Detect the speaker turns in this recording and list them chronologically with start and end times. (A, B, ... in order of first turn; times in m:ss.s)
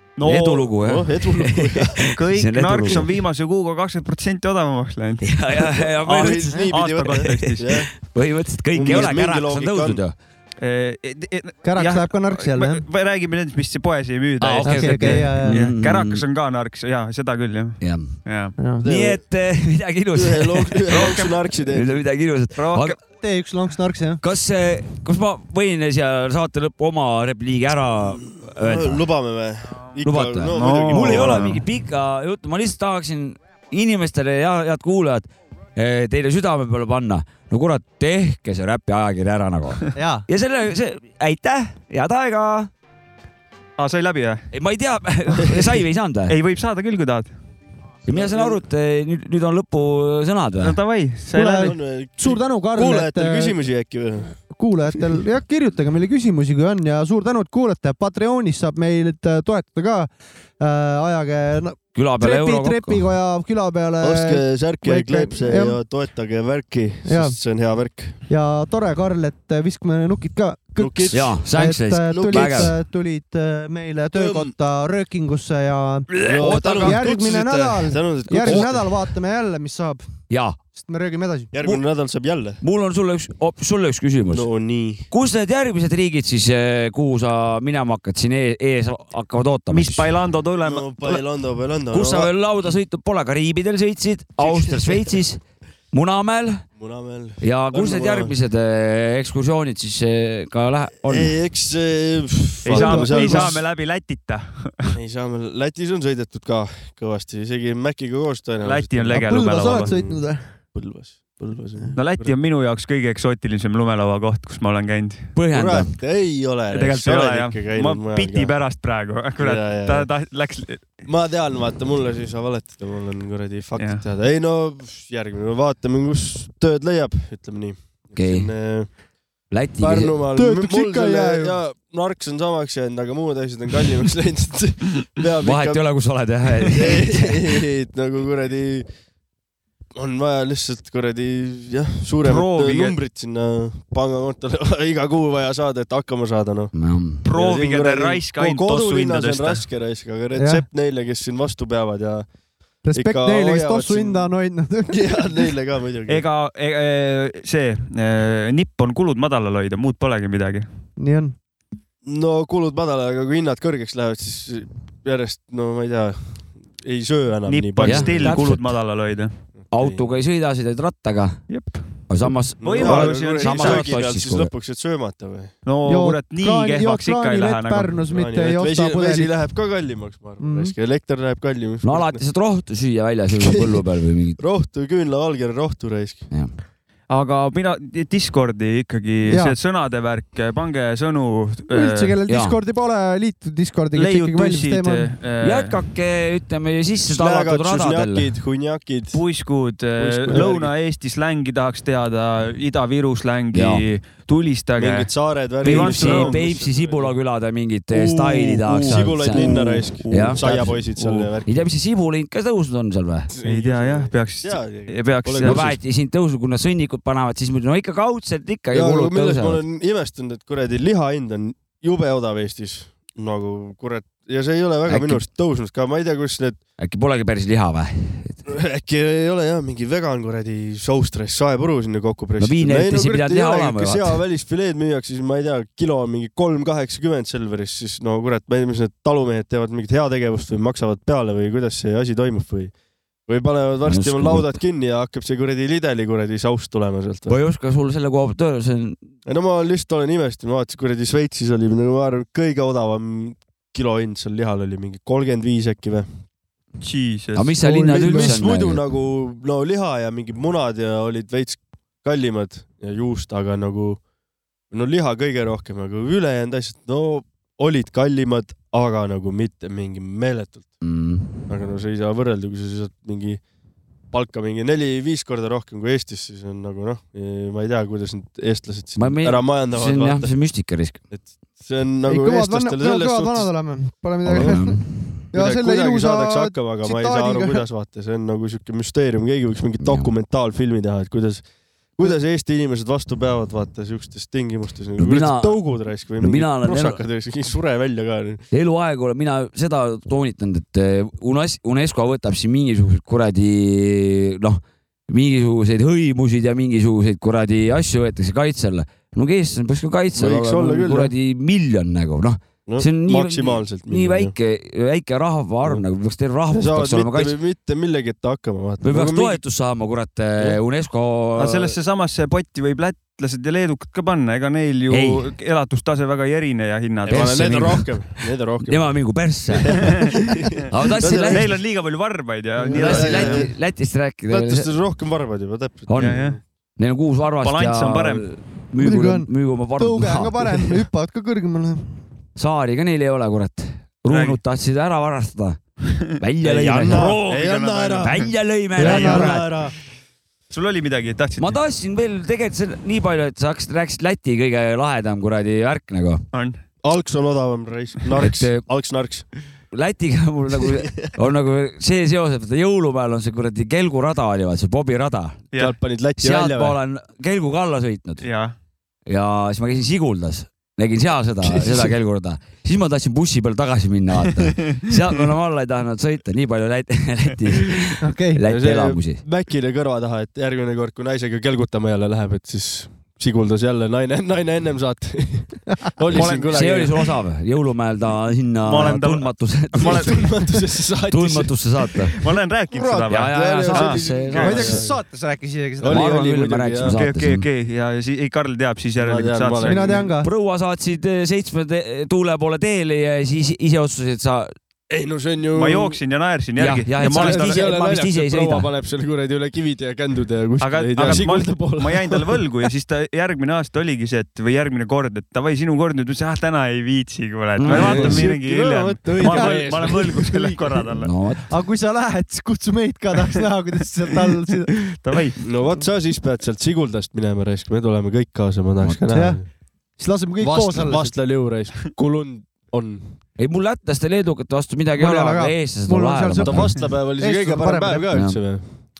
0:00.2-0:01.1 A
0:00.2-0:03.1 B
0:00.8-0:02.0 C
0:02.1-0:05.3 A
0:05.2-0:10.1 B
0:06.0-0:07.8 A
0:06.1-0:07.9 C
0:08.7-0:10.0 C
0:10.6-0:18.6 A
0:11.6-0:12.8 D
0:14.4-0:16.2 B
0:14.6-0:15.6 D
0:17.8-0:18.1 B
0:18.6-0:18.8 D
0:18.8-0:23.0 B
0:18.8-0:19.2 C
0:20.1-0:22.0 C
0:20.9-0:21.3 A
0:22.6-0:23.0 A
0:23.2-0:24.2 D
0:24.2-0:29.0 B
0:28.4-0:31.5 C
0:30.0-0:42.7 B
0:30.4-0:31.6 A
0:39.9-0:40.3 D
0:43.8-0:44.4 A
0:44.5-0:46.4 B
0:46.3-0:47.3 A
0:48.1-0:50.8 B
0:48.1-0:48.6 C
0:50.6-0:51.8 A
0:51.3-0:53.6 D
0:51.5-0:54.4 C
0:54.5-1:05.8 D
1:01.9-1:03.1 B
1:04.0-1:08.2 C
1:07.0-1:07.4 D
1:08.3-1:20.0 D
1:10.8-1:11.4 C
1:11.1-1:12.7 B
1:12.1-1:12.8 C
1:14.1-1:14.5 C
1:16.1-1:17.1 B
1:16.2-1:18.9 C
1:18.4-1:18.7 B
1:20.3-1:20.6 B
1:20.8-1:21.5 D
1:21.5-1:22.6 C
1:22.6-1:24.5 B
1:24.3-1:25.1 C
1:25.1-1:30.1 B
1:29.7-1:31.2 A
1:30.6-1:32.3 C
1:31.9-1:35.4 B
1:34.4-1:35.0 C
1:35.9-1:36.6 B
1:36.8-1:38.3 C
1:37.4-1:41.3 B
1:41.1-1:43.6 C
1:42.6-1:44.9 A
1:42.7-1:43.5 D
1:44.9-1:49.3 C
1:48.6-1:49.9 A
1:49.1-1:50.4 D
1:49.9-1:50.2 C
1:50.7-1:52.4 C
1:51.9-1:55.3 A
1:55.4-1:55.9 B
1:55.5-1:58.5 C
1:56.7-2:00.9 A
1:59.4-2:00.1 C
2:01.0-2:08.9 C
2:03.8-2:04.0 A
2:08.2-2:08.5 B
2:09.5-2:10.2 B
2:09.8-2:15.8 C
2:10.3-2:11.6 D
2:15.4-2:17.6 B
2:16.7-2:18.9 C
2:19.9-2:26.7 C
2:22.2-2:23.0 A
2:26.7-2:27.2 B
2:27.2-2:29.6 A
2:27.3-2:32.3 C
2:30.4-2:30.6 D
2:32.8-2:35.0 D
2:32.9-2:34.3 C
2:34.9-2:36.2 C
2:36.1-2:40.7 A
2:41.0-2:41.4 D
2:42.0-2:48.4 C
2:47.5-2:49.3 A
2:47.8-2:48.8 B
2:49.6-2:50.1 C
2:49.7-2:51.4 B
2:51.5-2:51.9 A
2:52.1-2:54.5 B
2:52.6-2:53.9 A
2:52.6-2:55.5 C
2:55.6-2:58.0 A
2:55.8-2:59.4 D
2:58.1-3:02.2 C
3:00.4-3:00.7 D
3:01.8-3:04.4 B
3:03.3-3:03.8 C
3:04.4-3:06.2 C
3:07.1-3:12.1 A
3:09.3-3:09.6 D
3:11.7-3:15.1 D
3:12.3-3:12.6 B
3:13.9-3:15.8 A
3:15.4-3:18.3 B
3:17.1-3:19.2 C
3:19.1-3:26.4 A
3:20.0-3:20.7 C
3:23.5-3:23.8 B
3:24.8-3:27.2 C
3:25.6-3:30.8 B
3:27.9-3:31.6 C
3:28.8-3:31.3 A
3:31.4-3:33.3 B
3:33.3-3:35.8 C
3:33.4-3:35.8 A
3:35.4-3:39.6 B
3:38.7-3:46.6 C
3:44.8-3:45.3 B
3:46.8-3:48.4 B
3:48.5-4:02.7 C
3:52.4-3:54.2 B
4:03.3-4:07.4 C
4:03.8-4:04.5 B
4:07.3-4:09.0 B
4:09.3-4:16.1 C
4:16.8-4:17.5 A
4:17.4-4:18.9 B
4:17.6-4:18.4 D
4:17.8-4:24.0 C
4:24.7-4:30.8 C
4:30.8-4:31.5 B
4:31.5-4:33.4 C
4:34.1-4:40.3 C
4:39.0-4:41.0 B
4:41.1-4:43.5 C
4:42.1-4:44.8 D
4:44.2-4:45.2 B
4:44.4-4:44.6 C
4:45.3-4:47.6 D
4:45.3-4:58.4 C
4:49.8-4:50.1 B
4:55.0-4:55.6 B
4:56.2-4:57.0 B
4:58.5-5:17.4 B
5:10.2-5:11.1 C
5:12.6-5:14.3 C
5:16.5-5:19.4 C
5:18.8-5:21.8 B
5:21.4-5:27.4 A
5:24.9-5:25.2 B
5:27.1-5:31.6 C
5:27.1-5:30.1 B
5:30.7-5:31.5 B
5:31.1-5:33.4 A
5:32.7-5:34.7 B
5:32.7-5:33.5 C
5:34.3-5:36.4 C
5:35.9-5:36.2 B
5:36.0-5:36.4 A
5:36.8-5:40.8 B
5:37.4-5:38.3 A
5:38.8-5:41.8 D
5:42.4-5:45.6 B
5:44.1-5:44.4 A
5:46.2-5:47.3 B
5:46.4-5:48.2 C
5:46.8-5:49.4 A
5:48.0-5:49.6 B
5:48.8-5:49.4 D
5:48.8-5:49.7 C
5:50.5-5:51.6 A
5:51.4-5:56.2 B
5:56.3-5:56.6 A
5:56.8-5:59.3 C
5:58.2-5:58.6 B
5:59.7-6:05.4 B
6:00.7-6:01.1 C
6:05.6-6:06.8 C
6:06.2-6:08.3 B
6:08.2-6:08.6 A
6:09.1-6:19.2 B
6:11.4-6:11.9 C
6:14.4-6:14.9 A
6:18.0-6:18.4 D
6:18.5-6:27.0 C
6:26.1-6:30.3 B
6:26.1-6:26.6 A
6:28.6-6:30.2 A
6:29.8-6:32.1 C
6:31.1-6:32.2 B
6:32.1-6:34.6 A
6:32.7-6:34.9 C
6:33.1-6:34.9 B
6:34.4-6:36.1 D
6:35.8-6:37.0 C
6:35.8-6:37.4 B
6:36.9-6:39.9 A
6:39.0-6:40.1 C
6:39.6-6:40.3 D
6:40.2-6:44.5 B
6:44.9-6:46.0 C
6:45.5-6:47.6 A
6:46.6-6:48.7 B
6:47.0-6:52.4 C
6:50.6-7:01.1 A
6:51.0-6:51.3 B
6:57.6-6:58.3 B
6:57.7-7:00.8 C
6:59.3-6:59.7 D
7:01.0-7:01.4 B
7:01.5-7:04.7 D
7:04.9-7:05.4 A
7:05.4-7:09.4 C
7:08.8-7:09.0 B
7:09.1-7:09.4 D
7:10.0-7:11.1 D
7:10.4-7:13.0 C
7:13.4-7:16.8 B
7:15.0-7:18.0 D
7:16.4-7:18.6 C
7:18.1-7:18.4 B